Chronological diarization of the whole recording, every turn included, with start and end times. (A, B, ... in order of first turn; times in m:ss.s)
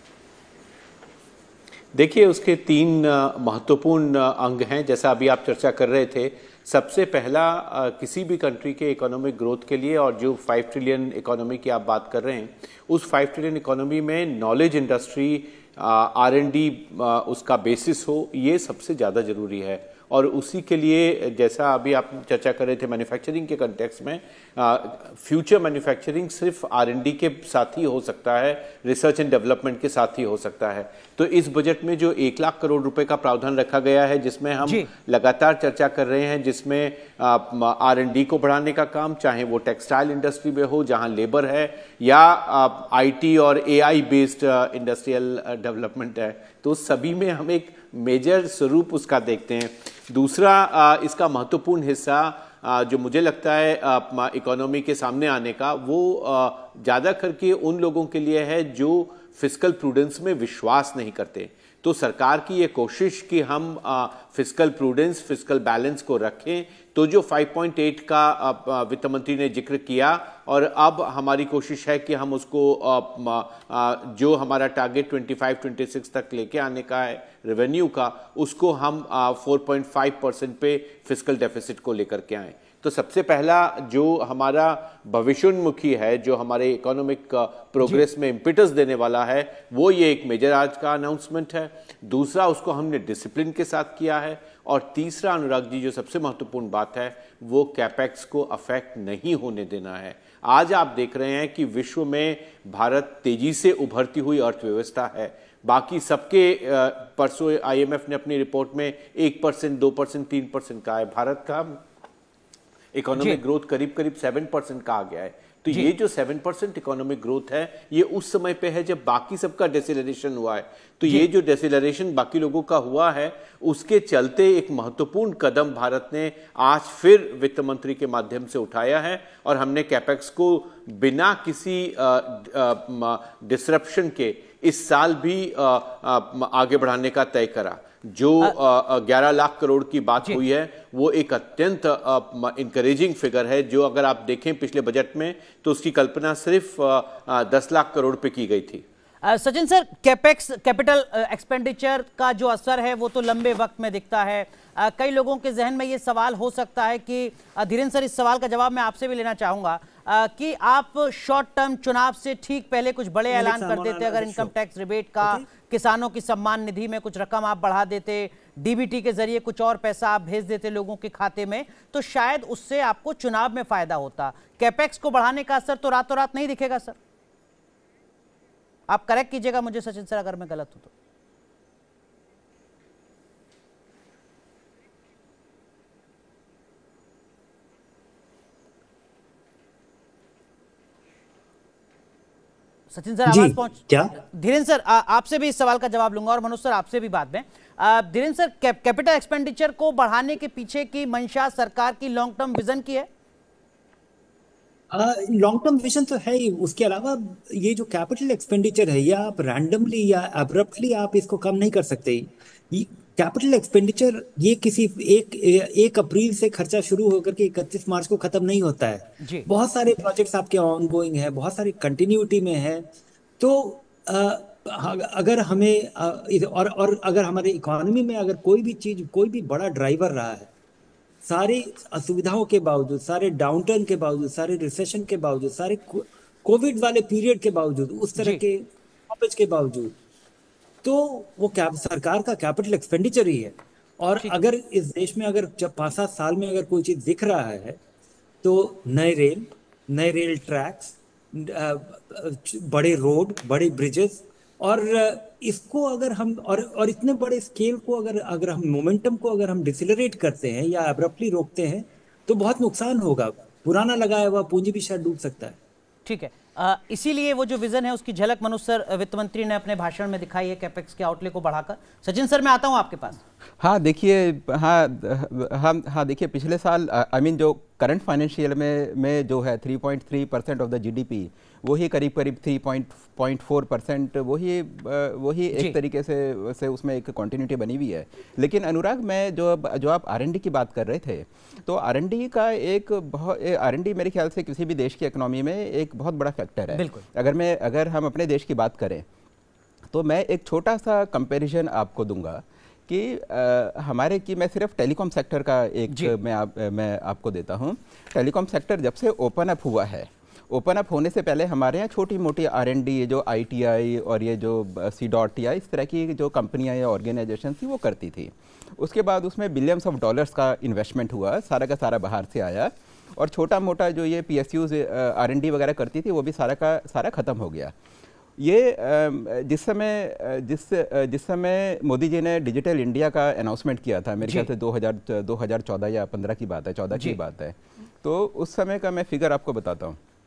0:01.9-1:51.8 A
0:34.6-0:34.9 B
1:52.9-2:28.8 A
2:29.2-2:57.0 B
2:43.3-2:44.5 C
2:45.2-2:45.5 C
2:58.9-3:00.9 B
3:12.9-3:23.1 B
3:13.3-3:14.1 C
3:24.9-3:42.8 C
3:39.2-3:39.5 B
3:43.4-3:50.5 C
3:51.2-4:00.0 C
4:00.8-4:07.8 C
4:08.4-4:25.6 C
4:26.1-4:33.2 B
4:33.6-4:59.0 D
4:56.7-4:57.0 B
4:59.9-5:27.7 D
5:28.4-5:40.0 D